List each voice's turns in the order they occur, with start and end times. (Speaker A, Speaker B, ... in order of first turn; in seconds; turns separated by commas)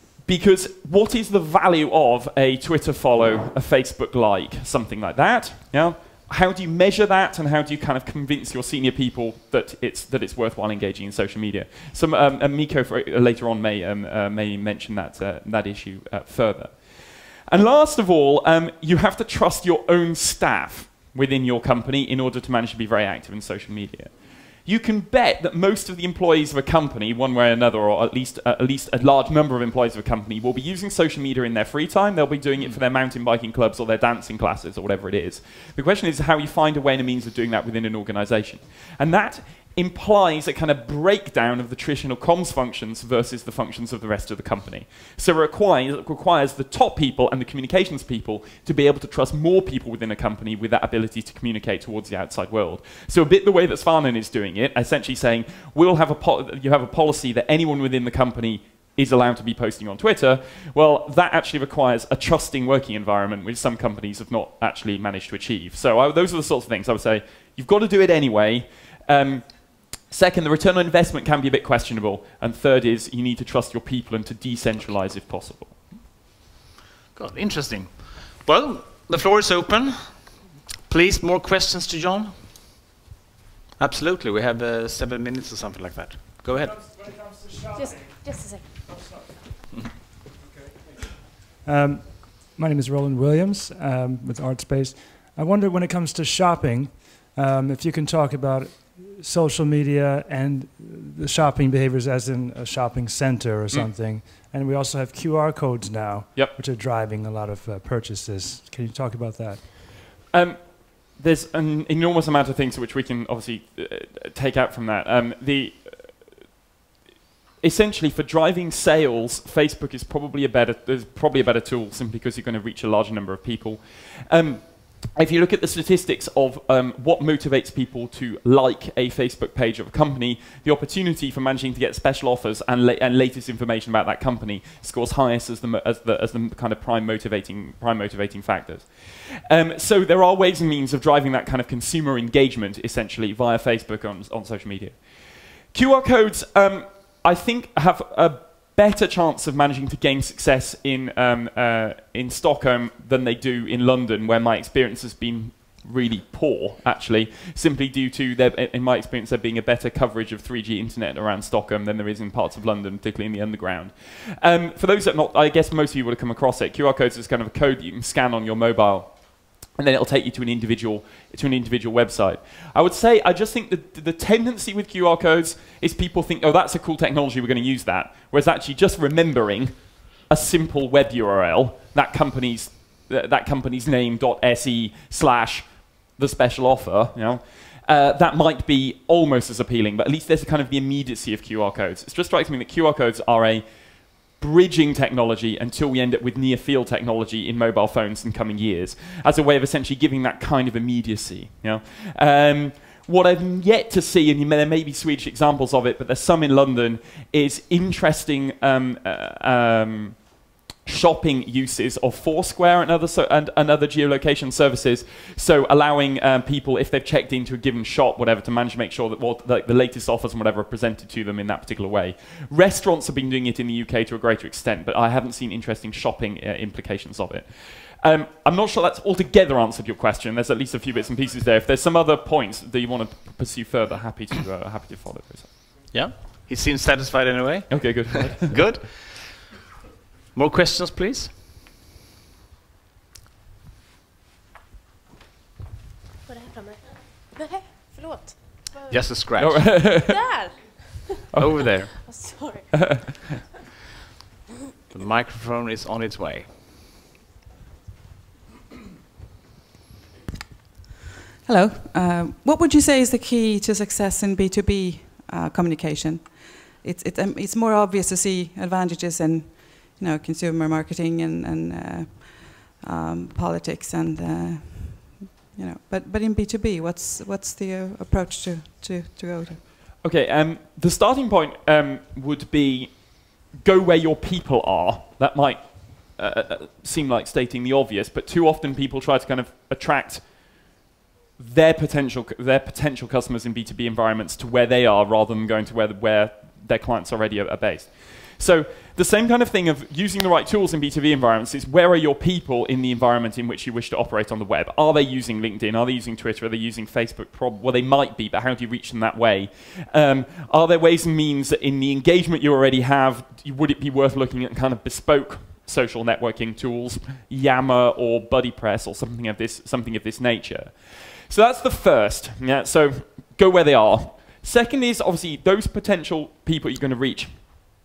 Speaker A: 0.2-75.8, Speaker B: 77.1-80.1, Speaker B: 80.8-82.3, Speaker B: 83.8-86.8, Speaker C: 86.7-88.1, Speaker D: 87.7-88.6, Speaker C: 88.8-89.2, Speaker C: 91.6-109.6, Speaker A: 110.3-116.1, Speaker A: 117.6-193.7, Speaker A: 194.3-235.6, Speaker B: 235.9-239.5, Speaker A: 237.7-238.6, Speaker B: 240.3-241.3, Speaker D: 246.3-248.9, Speaker B: 248.9-249.8, Speaker A: 249.4-250.2, Speaker D: 250.0-251.1, Speaker A: 251.3-251.7, Speaker B: 251.3-251.9, Speaker D: 252.0-253.3, Speaker A: 252.7-253.0, Speaker B: 254.9-256.5, Speaker E: 261.4-279.6, Speaker A: 280.0-290.7, Speaker A: 291.4-327.4